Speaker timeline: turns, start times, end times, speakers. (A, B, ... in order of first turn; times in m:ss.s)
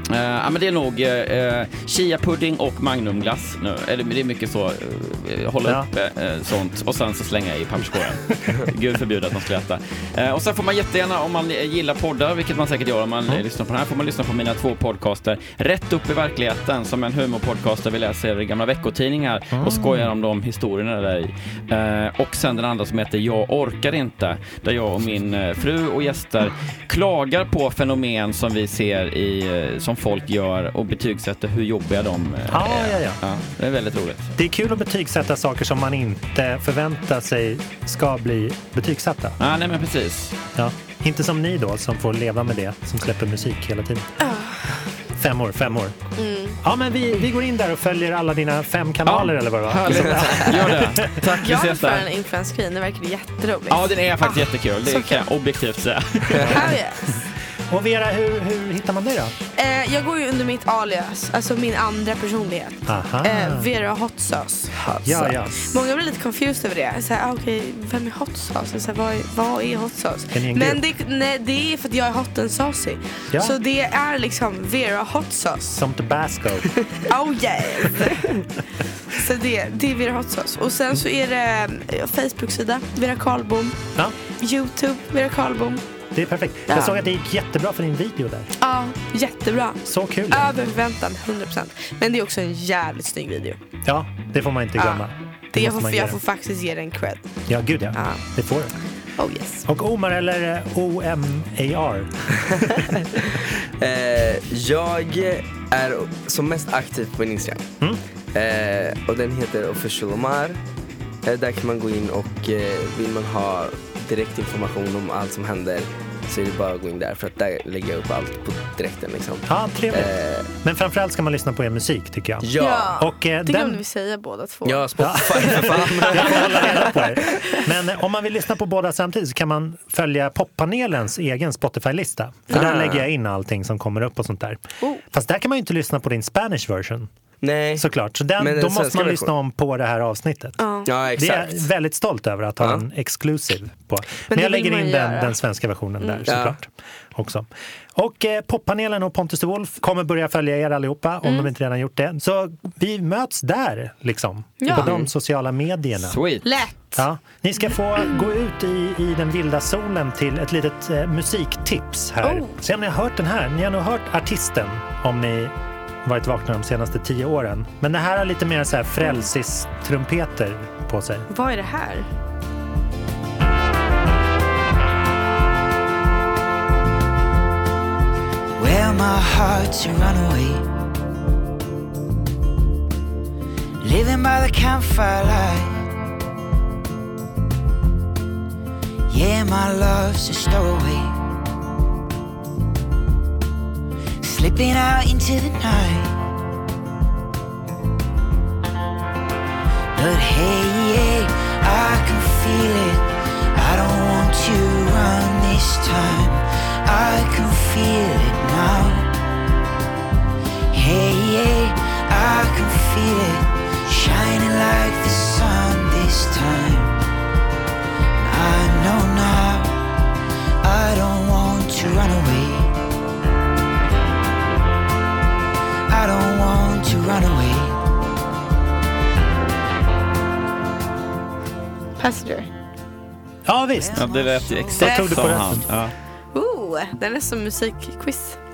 0:00.1-0:34.3 A
0:19.6-0:20.1 B
0:32.5-0:33.2 B
0:34.4-0:39.4 B
0:39.4-0:40.3 A
0:40.5-0:44.1 B
0:44.2-0:44.8 C
0:45.1-0:46.0 B
0:46.2-0:46.6 C
0:46.6-0:51.2 B
0:49.0-0:52.0 A
0:51.4-0:55.2 C
0:53.7-0:56.8 A
0:56.4-0:57.2 C
0:57.7-0:59.3 B
0:59.6-1:04.7 C
1:02.9-1:03.7 B
1:04.7-1:05.8 D
1:05.0-1:05.5 B
1:05.7-1:15.8 C
1:10.3-1:10.8 B
1:15.7-1:16.8 B
1:17.0-1:18.6 C
1:19.1-1:25.8 C
1:26.1-1:28.5 B
1:26.7-1:27.0 C
1:28.6-1:33.6 C
1:29.8-1:30.5 B
1:33.8-1:36.2 B
1:34.8-1:37.3 C
1:37.5-1:38.7 B
1:37.9-1:38.2 C
1:39.2-1:39.6 C
1:39.7-1:42.4 B
1:42.5-1:47.7 D
1:48.3-1:50.6 D
1:51.2-2:00.5 D
1:59.5-2:03.8 B
2:02.4-2:03.0 D
2:02.6-2:07.6 C
2:04.6-2:06.7 D
2:05.0-2:17.1 B
2:12.5-2:13.0 D
2:17.4-2:17.8 D
2:17.8-2:20.6 B
2:18.4-2:19.3 D
2:20.6-2:20.9 C
2:20.8-2:21.7 D
2:21.1-2:36.2 B
2:24.3-2:25.4 C
2:26.0-2:26.4 C
2:26.3-2:26.6 D
2:31.2-2:31.5 C
2:34.6-2:35.0 C
2:34.7-2:35.1 D
2:36.1-2:36.6 A
2:36.4-2:37.0 C
2:37.0-2:45.5 B
2:38.0-2:38.2 C
2:42.2-2:42.5 C
2:46.0-2:51.3 B
2:51.3-2:52.1 C
2:58.6-3:00.6 E
3:03.8-3:05.9 E
3:09.1-3:11.2 E
3:14.2-3:16.2 E
3:19.9-3:29.1 E
3:30.7-3:37.0 E
3:38.1-3:39.8 E
3:40.6-3:42.8 E
3:45.9-3:47.8 E
3:52.0-3:52.5 C
3:53.4-3:54.0 B
3:53.7-3:55.3 E
3:53.9-3:55.9 A
3:54.8-3:55.7 B
3:54.8-3:55.3 C
3:56.3-3:58.4 C